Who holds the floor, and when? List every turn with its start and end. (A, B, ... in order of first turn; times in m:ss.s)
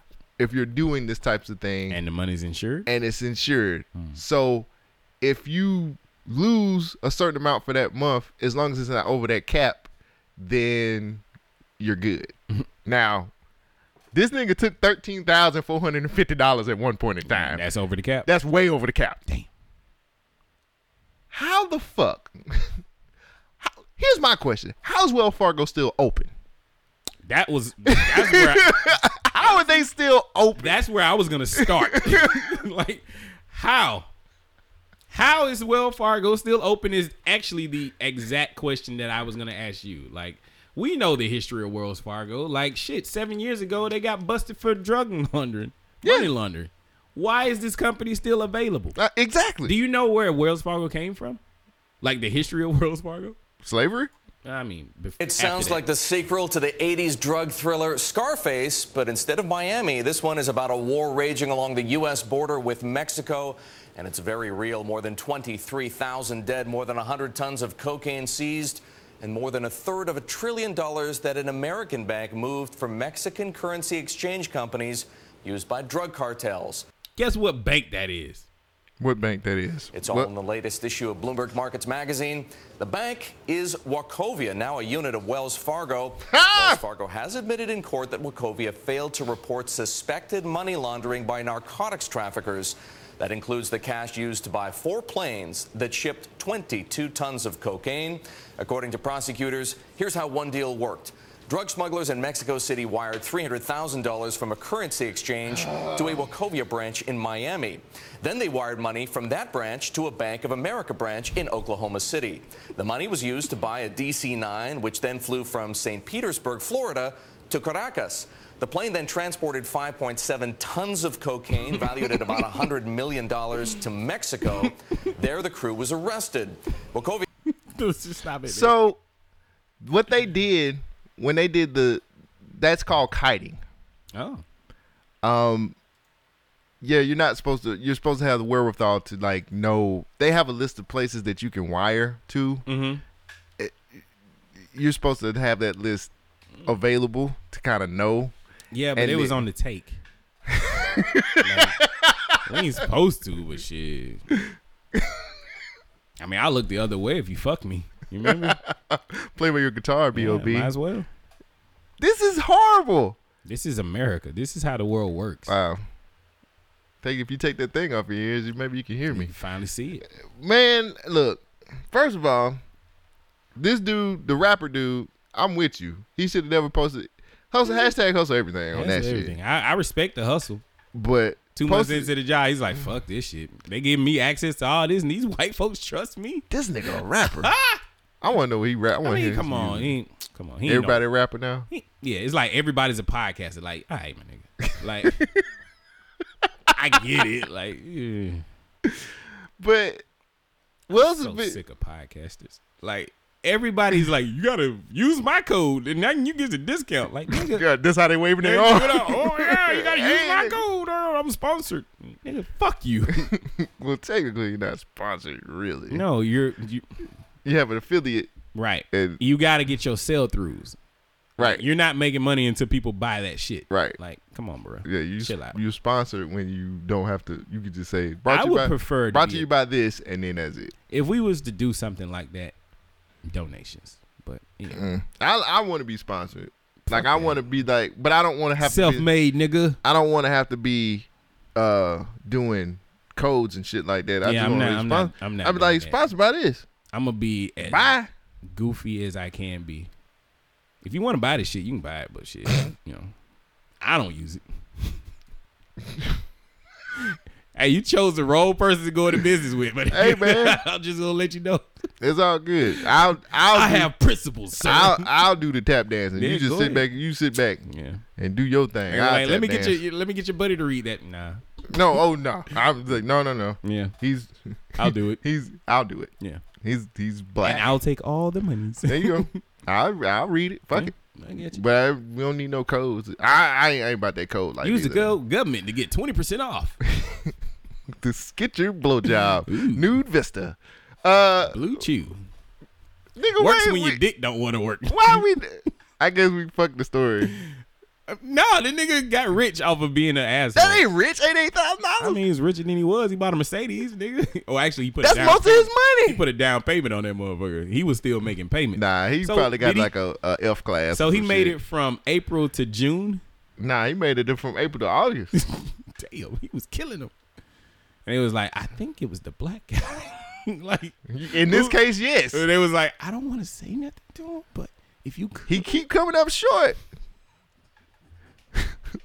0:00.4-0:02.0 A
0:01.9-0:02.9 B
0:02.9-0:04.7 A
0:04.0-0:04.2 B
0:05.2-0:11.2 A
0:11.8-0:12.4 A
0:12.9-0:13.3 A
0:14.1-0:17.6 A
0:17.3-0:18.3 B
0:18.2-0:19.2 A
0:21.3-0:22.7 A
0:23.6-0:26.3 A
0:27.3-0:28.8 B
0:27.9-0:30.8 A
0:30.6-0:34.1 B
0:31.6-0:32.4 A
0:35.1-0:49.0 B
0:46.0-0:46.3 A
0:49.0-0:49.7 A
0:49.7-0:51.4 B
0:52.0-0:53.4 B
0:53.6-0:54.1 A
0:54.4-0:55.8 B
0:55.2-1:16.8 C
1:17.2-1:18.5 B
1:19.0-1:20.3 A
1:19.9-2:07.3 C
1:26.3-1:26.8 A
2:07.7-2:08.8 B
2:08.5-2:09.0 A
2:09.8-2:13.6 A
2:14.1-2:14.4 B
2:15.2-2:15.8 A
2:16.8-2:22.6 A
2:22.7-2:23.0 B
2:24.7-2:26.1 A
2:26.7-2:28.3 A
2:28.7-2:30.0 B
2:29.0-2:29.4 A
2:30.5-2:32.4 A
2:31.4-2:31.8 B
2:32.4-2:34.2 B
2:36.2-2:38.6 B
2:38.2-2:40.7 A
2:40.1-2:41.1 B
2:42.0-2:43.2 A
2:43.4-2:45.5 B
2:45.5-2:45.8 A
2:47.0-2:49.3 A
2:49.1-2:50.0 B
2:50.2-2:52.6 A
2:53.6-2:59.4 A
2:58.7-3:00.6 B
3:01.0-3:02.1 A
3:01.6-3:06.4 B
3:06.5-3:07.5 A
3:07.4-3:07.8 B
3:08.2-3:09.9 A
3:09.0-3:11.0 B
3:10.6-3:11.7 A
3:11.7-3:15.2 B
3:16.7-3:18.4 B
3:19.6-3:20.0 A
3:20.9-3:21.6 A
3:21.0-3:27.6 B
3:27.3-3:30.6 A
3:28.4-3:33.3 B
3:33.2-3:36.0 A
3:35.9-3:36.9 B
3:37.4-3:38.3 A
3:38.6-3:40.8 B
3:38.9-3:39.2 A
3:41.4-3:41.6 A
3:41.4-3:45.6 B
3:43.7-3:44.0 A
3:44.8-3:50.7 A
3:48.3-3:49.5 B
3:50.9-3:52.6 B
3:53.3-3:54.8 B
3:54.7-3:59.1 A
3:56.9-3:57.4 B
3:58.6-3:59.8 B
3:59.8-4:06.7 A
4:04.2-4:06.0 B
4:06.9-4:07.9 B
4:07.6-4:08.1 A
4:08.5-4:09.9 B
4:10.8-4:13.1 B
4:13.8-4:14.4 B
4:17.6-4:21.7 B
4:19.9-4:20.6 A
4:22.0-4:23.9 A
4:23.5-4:25.1 B
4:24.6-4:27.6 A
4:26.2-4:26.9 B
4:27.7-4:28.0 B
4:28.2-4:29.8 A
4:28.9-4:31.4 B
4:31.7-4:37.7 A
4:33.6-4:33.9 B
4:34.8-4:35.2 B
4:37.4-4:39.3 B
4:38.9-4:40.9 A
4:40.7-4:41.6 B
4:41.5-4:45.1 A
4:44.6-4:46.8 B
4:47.0-4:47.3 A
4:47.9-4:51.6 A
4:49.5-4:49.9 B
4:51.5-4:52.2 B
4:53.2-4:54.0 A
4:53.4-4:55.2 B
4:54.9-4:57.3 A
4:58.1-5:00.8 B
5:00.6-5:02.2 A
5:02.0-5:09.9 B
5:05.0-5:06.2 A
5:08.8-5:11.6 A
5:10.9-5:13.2 B
5:13.6-5:15.3 A
5:15.4-5:17.1 B
5:18.1-5:21.8 B
5:21.1-5:22.4 A
5:22.3-5:25.7 B
5:25.5-5:26.8 A